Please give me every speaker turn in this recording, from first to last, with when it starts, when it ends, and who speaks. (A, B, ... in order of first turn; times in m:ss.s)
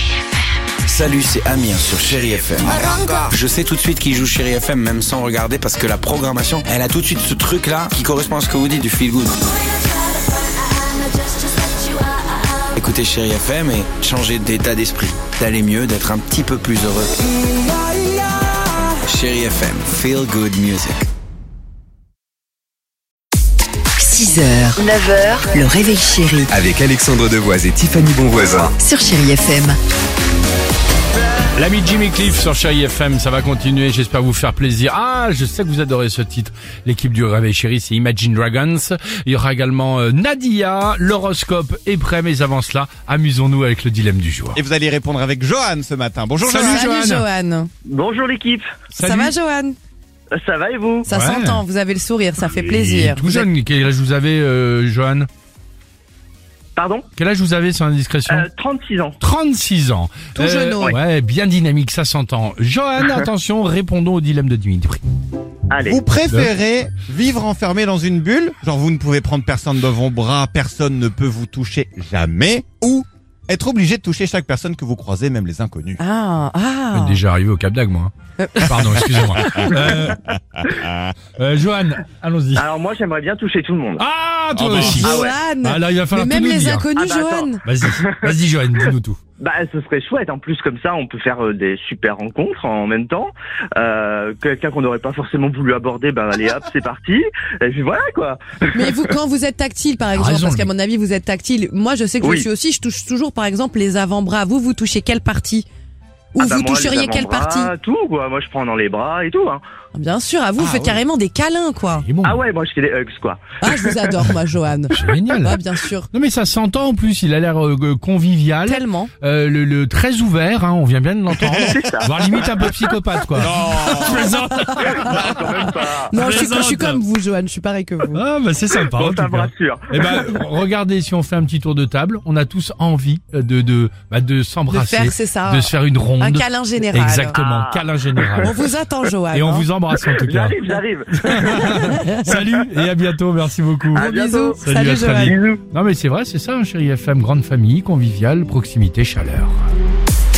0:00.9-0:09.4 A
0:12.7-0:17.1 A
0:19.0-0:21.1 A
0:24.0-0:26.5 B
0:26.5-0:28.7 C
0:28.7-0:29.8 B
0:31.6-0:44.6 D
0:44.5-0:46.8 E
0:46.4-0:47.3 D
0:46.5-0:47.7 F
0:47.9-0:48.7 G
0:48.9-0:49.3 D
0:49.0-0:49.8 F
0:50.3-0:51.1 G
0:51.1-0:53.5 F
0:51.1-0:51.6 D
0:52.4-0:55.3 D
0:56.8-0:57.1 G
0:57.2-0:58.5 D
0:58.3-0:59.2 G
0:59.2-1:05.0 D
1:00.4-1:01.0 F
1:05.7-1:06.0 G
1:05.8-1:16.0 E
1:16.0-1:17.2 F
1:16.9-1:20.2 D
1:18.4-1:19.8 F
1:19.4-1:21.1 E
1:21.4-1:22.7 D
1:22.6-1:24.0 G
1:24.0-1:26.9 D
1:24.6-1:25.1 E
1:25.0-1:25.4 G
1:25.0-1:27.6 F
1:27.0-1:28.4 G
1:27.6-1:29.2 D
1:29.4-1:38.9 G
1:38.7-1:45.7 F
1:40.1-1:40.7 D
1:46.4-1:47.7 F
1:46.4-1:49.6 G
1:49.9-1:52.1 F
1:50.6-1:51.0 D
1:51.9-1:52.4 D
1:52.2-1:54.0 G
1:53.6-1:56.1 F
1:54.9-1:55.6 D
1:56.1-2:07.0 D
1:58.7-1:59.1 F
2:01.4-2:02.6 G
2:03.4-2:04.3 E
2:03.8-2:05.0 F
2:04.8-2:06.1 G
2:05.1-2:05.4 E
2:05.6-2:08.2 F
2:08.1-2:18.7 D
2:08.7-2:10.1 G
2:14.7-2:17.4 F
2:17.3-2:18.6 G
2:18.4-2:19.7 F
2:19.3-2:20.6 D
2:20.0-2:22.4 G
2:21.2-2:24.0 D
2:21.8-2:22.2 F
2:24.0-2:24.6 G
2:24.0-2:25.4 F
2:24.6-2:29.6 D
2:25.2-2:25.6 G